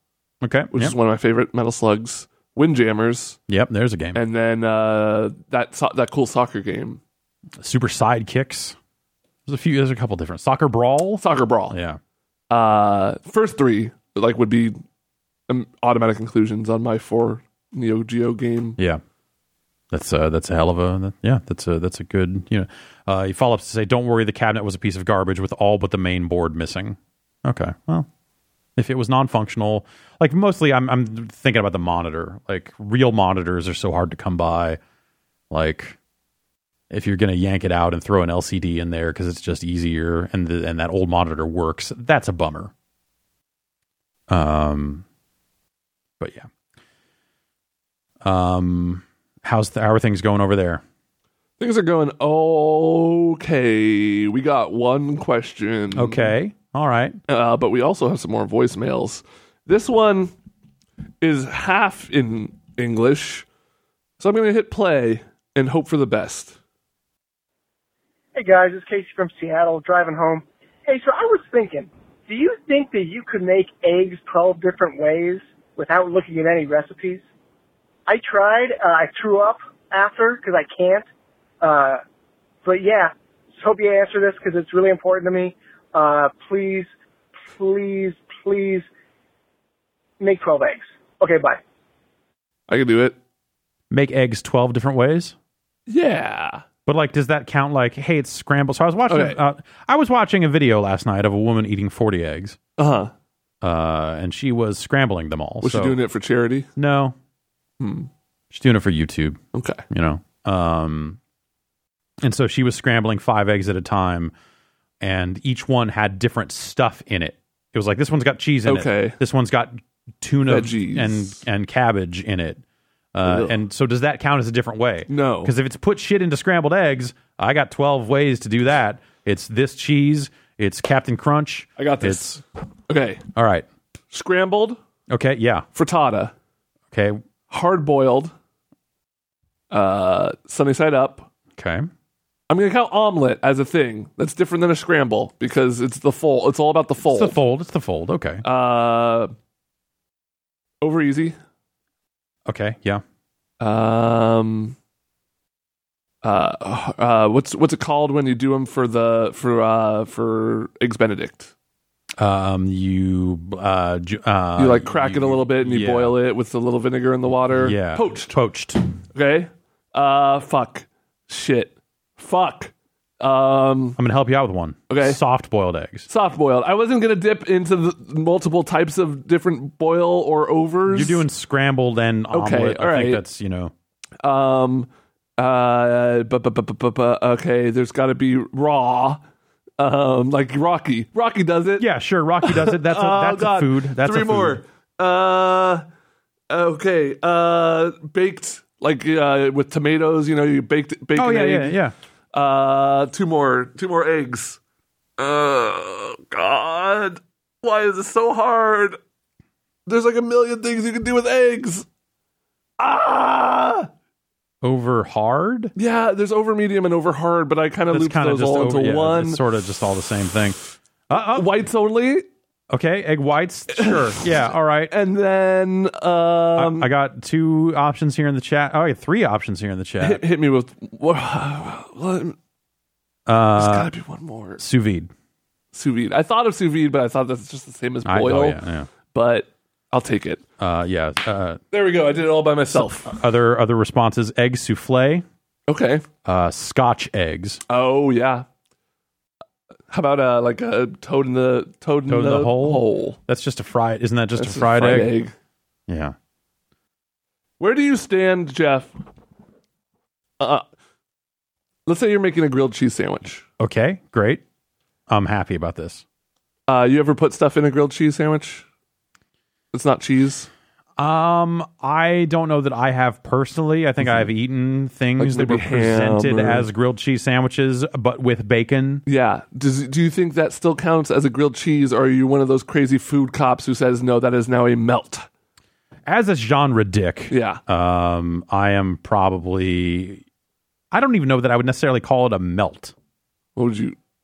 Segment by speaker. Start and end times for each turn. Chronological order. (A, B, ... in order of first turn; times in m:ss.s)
0:00.4-0:00.9 A
0:00.7-0:03.4 B
0:03.5-0:04.2 A
0:04.2-0:07.0 B
0:07.6-0:08.8 A
0:09.5-0:12.0 A
0:11.2-0:11.8 B
0:12.5-0:14.8 B
0:15.5-0:18.8 B
0:19.9-0:28.1 A
0:28.8-0:34.8 A
0:35.5-0:36.0 A
0:36.9-0:42.7 A
0:44.3-0:45.0 A
0:46.2-0:46.5 A
0:48.2-0:50.8 A
0:51.6-0:56.3 B
0:56.0-0:57.2 A
0:57.3-1:00.3 B
1:01.2-1:03.5 B
1:04.2-1:06.6 B
1:08.4-1:17.2 C
1:18.1-1:21.0 C
1:21.6-1:22.0 C
1:22.6-1:26.9 C
1:27.5-1:28.9 C
1:30.2-1:31.6 C
1:32.7-1:33.2 B
1:33.9-1:35.4 A
1:35.9-1:36.6 B
1:36.9-1:42.6 A
1:39.1-1:39.4 B
1:42.8-1:43.1 B
1:43.6-1:46.0 A
1:45.6-1:46.7 B
1:46.8-1:47.2 A
1:47.8-1:48.1 B
1:48.5-1:51.2 A
1:49.5-1:49.8 B
1:52.2-1:54.3 A
1:55.0-2:02.6 A
1:58.7-1:59.2 B
2:00.5-2:01.4 B
2:03.1-2:12.4 A
2:03.2-2:03.6 B
2:05.1-2:05.5 B
2:11.8-2:13.2 B
2:13.4-2:13.7 A
2:14.1-2:14.8 B
2:15.1-2:15.7 A
2:15.8-2:16.3 B
2:16.9-2:17.2 A
2:17.5-2:18.3 B
2:19.7-2:21.3 B
2:21.6-2:21.9 A
2:22.5-2:27.4 B
2:27.0-2:28.4 A
2:28.4-2:29.3 B
2:30.8-2:31.4 B
2:32.5-2:33.0 A
2:33.6-2:34.8 B
2:36.2-2:41.5 B
2:42.2-2:46.2 A
2:44.6-2:48.4 B
2:47.5-2:48.8 A
2:49.1-2:54.0 B
2:54.0-2:56.1 A
2:54.9-2:55.2 B
2:56.1-3:01.2 B
3:00.9-3:03.7 A
3:02.3-3:03.2 B
3:04.2-3:09.2 B
3:09.8-3:11.9 B
3:11.8-3:14.6 A
3:12.4-3:15.8 B
3:16.5-3:21.8 B
3:21.2-3:21.9 A
3:22.3-3:24.6 B
3:25.2-3:29.0 B
3:29.9-3:31.9 B
3:32.8-3:33.9 B
3:34.6-3:35.7 A
3:35.8-3:39.4 B
3:37.9-3:40.6 A
3:41.1-3:41.5 A
3:41.1-3:42.3 B
3:42.7-3:44.9 A
3:43.7-3:44.4 B
3:44.9-3:46.9 B
3:46.6-3:50.2 A
3:50.0-3:52.4 B
3:53.3-3:53.9 A
3:53.6-3:54.6 B
3:54.6-3:55.1 A
3:55.7-4:00.4 B
3:58.0-3:58.9 A
4:00.6-4:01.6 A
4:01.7-4:03.2 B
4:02.7-4:05.2 A
4:05.7-4:06.0 B
4:06.2-4:07.6 A
4:07.7-4:08.5 B
4:09.9-4:13.2 B
4:12.1-4:15.2 A
4:14.4-4:15.3 B
4:15.9-4:16.2 A
4:17.6-4:18.9 B
4:20.4-4:20.6 B
4:21.9-4:23.4 B
4:23.6-4:24.4 A
4:25.1-4:26.0 A
4:26.7-4:28.6 B
4:29.7-4:30.5 B
4:31.0-4:39.0 A
4:34.0-4:34.3 B
4:35.2-4:36.7 B
4:39.1-4:45.3 B
4:46.1-4:50.2 A
4:47.3-4:47.6 B
4:50.9-4:52.9 A
4:53.6-4:54.0 B